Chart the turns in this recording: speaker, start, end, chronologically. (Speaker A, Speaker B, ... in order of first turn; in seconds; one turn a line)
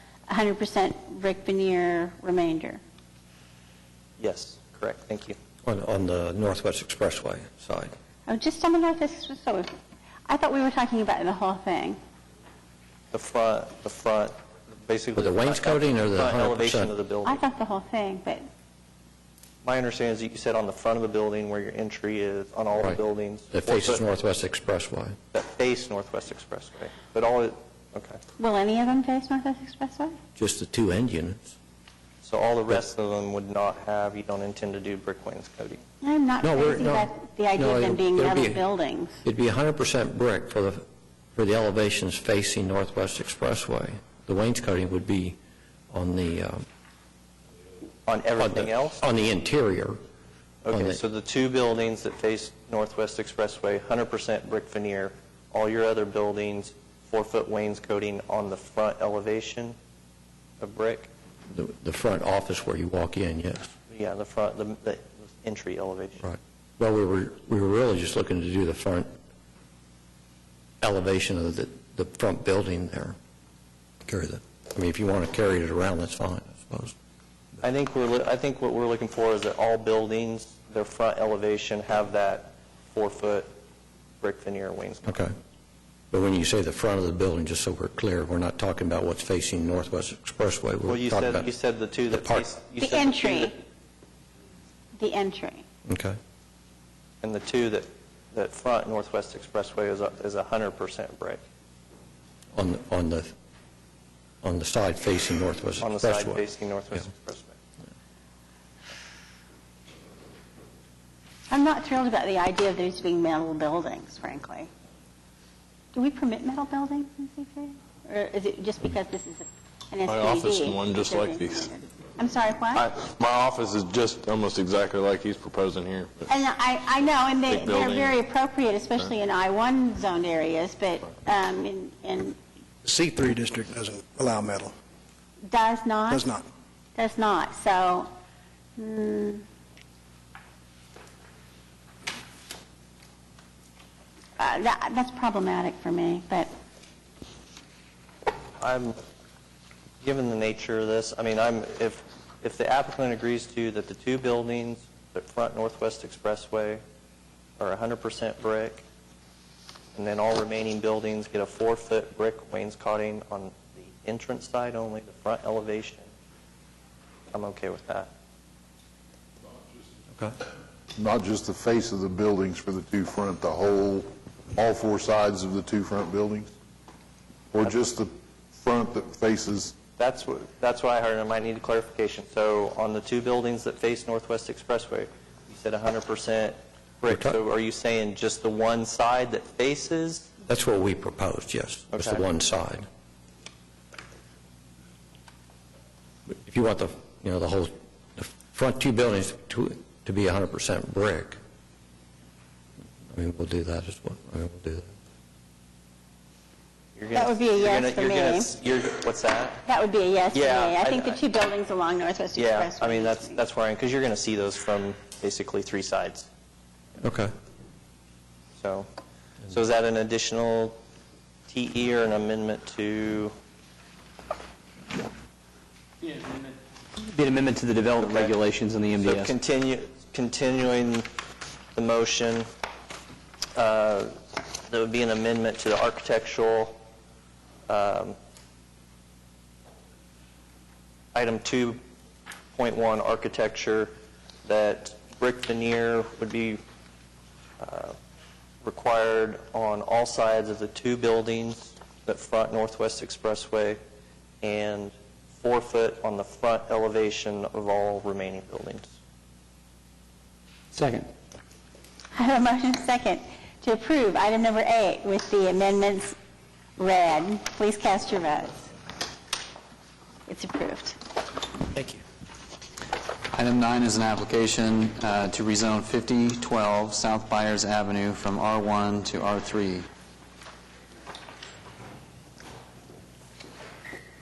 Speaker A: 0.3-2.8
Speaker B: 4.2-5.4
Speaker C: 5.6-7.9
Speaker A: 8.3-9.7
Speaker A: 10.3-12.0
Speaker B: 13.1-14.3
Speaker B: 14.9-17.4
Speaker C: 15.2-16.9
Speaker A: 17.2-18.5
Speaker B: 19.6-24.0
Speaker C: 22.8-25.2
Speaker B: 25.3-28.2
Speaker A: 28.4-30.2
Speaker C: 30.4-31.5
Speaker B: 32.2-35.8
Speaker A: 36.0-39.2
Speaker C: 36.4-38.6
Speaker C: 39.2-40.8
Speaker C: 41.4-45.4
Speaker C: 45.9-46.6
Speaker B: 48.1-49.0
Speaker C: 48.4-50.0
Speaker B: 50.6-59.8
Speaker C: 50.7-51.0
Speaker B: 60.6-61.1
Speaker C: 61.5-63.7
Speaker B: 63.9-66.3
Speaker C: 66.2-69.1
Speaker C: 70.8-73.2
Speaker C: 74.0-76.9
Speaker B: 77.6-83.5
Speaker B: 84.2-85.2
Speaker C: 85.1-85.3
Speaker C: 86.1-91.5
Speaker B: 90.9-93.5
Speaker C: 92.1-92.5
Speaker A: 92.8-93.6
Speaker A: 95.0-95.6
Speaker C: 95.9-96.2
Speaker B: 97.2-101.4
Speaker C: 102.5-103.3
Speaker C: 104.4-106.4
Speaker B: 105.8-107.6
Speaker A: 111.5-114.7
Speaker A: 115.9-122.9
Speaker D: 120.1-121.7
Speaker D: 122.8-126.3
Speaker A: 126.3-132.4
Speaker D: 127.5-128.2
Speaker E: 132.8-134.7
Speaker A: 135.5-136.3
Speaker E: 136.1-136.5
Speaker A: 137.0-138.1
Speaker A: 138.8-139.4
Speaker A: 144.4-146.5
Speaker B: 148.6-149.0
Speaker B: 150.0-156.8
Speaker B: 157.6-158.8
Speaker B: 159.9-166.1
Speaker B: 167.3-168.1
Speaker F: 169.6-169.9
Speaker F: 170.9-176.5
Speaker F: 177.5-179.8
Speaker B: 180.0-190.3
Speaker C: 187.1-187.4
Speaker C: 190.5-192.9
Speaker B: 191.9-192.2
Speaker C: 196.4-201.4
Speaker C: 203.1-204.9
Speaker B: 207.0-209.6
Speaker A: 207.1-208.5
Speaker A: 209.7-213.4
Speaker B: 210.3-211.2
Speaker B: 212.4-216.3
Speaker C: 217.0-217.3
Speaker B: 218.6-218.9
Speaker B: 219.5-220.8
Speaker B: 221.5-223.3
Speaker G: 227.0-229.3
Speaker B: 228.0-228.4
Speaker B: 228.9-231.1
Speaker B: 231.8-232.5
Speaker B: 233.6-236.8
Speaker B: 237.7-238.2
Speaker B: 241.1-241.8
Speaker B: 242.6-243.9
Speaker B: 244.4-246.6
Speaker B: 247.6-248.0
Speaker B: 248.6-253.8
Speaker B: 254.4-258.9
Speaker H: 260.7-261.1
Speaker A: 262.1-266.2
Speaker A: 266.8-268.6
Speaker A: 270.3-271.0
Speaker H: 273.3-279.9